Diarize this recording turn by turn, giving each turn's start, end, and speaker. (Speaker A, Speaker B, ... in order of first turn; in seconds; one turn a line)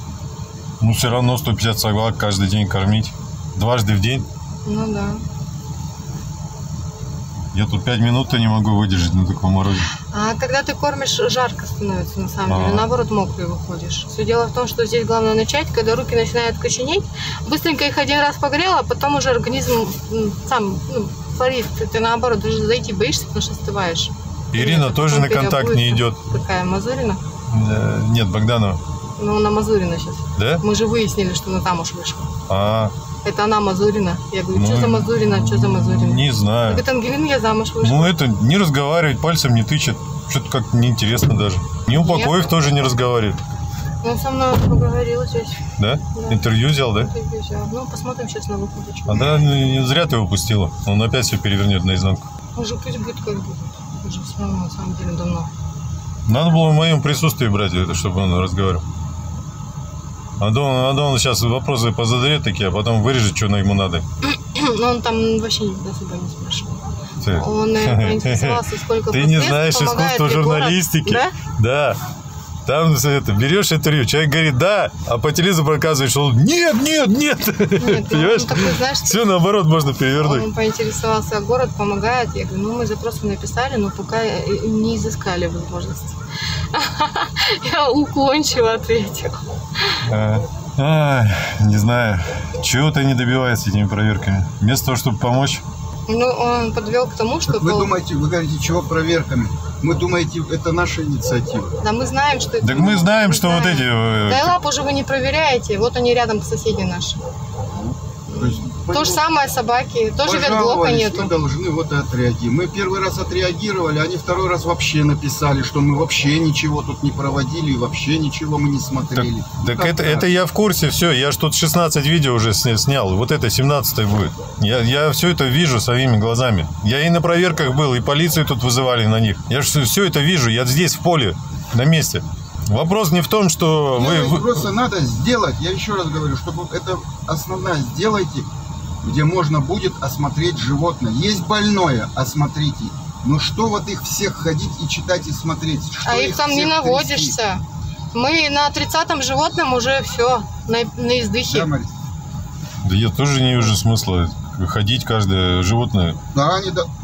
Speaker A: 0.8-4.3
Speaker B: 4.7-5.2
Speaker A: 7.5-9.9
Speaker B: 10.0-27.2
Speaker A: 12.5-12.9
Speaker A: 24.5-26.2
Speaker A: 27.5-28.8
Speaker B: 29.2-32.3
Speaker A: 30.4-30.6
Speaker A: 32.5-32.9
Speaker B: 33.2-38.2
Speaker A: 34.5-36.8
Speaker A: 37.8-43.4
Speaker B: 41.9-42.6
Speaker B: 44.0-45.6
Speaker A: 45.8-47.1
Speaker B: 46.1-49.4
Speaker A: 49.1-52.3
Speaker B: 52.5-55.5
Speaker A: 56.3-58.9
Speaker A: 60.4-64.0
Speaker B: 64.2-66.8
Speaker A: 67.2-68.6
Speaker B: 67.4-71.3
Speaker A: 69.1-72.0
Speaker A: 72.7-80.5
Speaker B: 77.8-79.2
Speaker B: 80.2-86.2
Speaker B: 86.7-90.0
Speaker A: 90.0-95.6
Speaker B: 96.1-97.9
Speaker C: 97.5-101.7
Speaker B: 101.8-107.2
Speaker A: 102.6-104.6
Speaker C: 107.7-109.2
Speaker B: 108.3-111.3
Speaker C: 110.2-120.3
Speaker A: 119.2-134.7
Speaker C: 134.0-138.5
Speaker C: 139.0-147.4
Speaker B: 146.1-147.6
Speaker B: 148.1-151.7
Speaker C: 151.4-151.9
Speaker A: 152.8-156.2
Speaker C: 156.3-156.9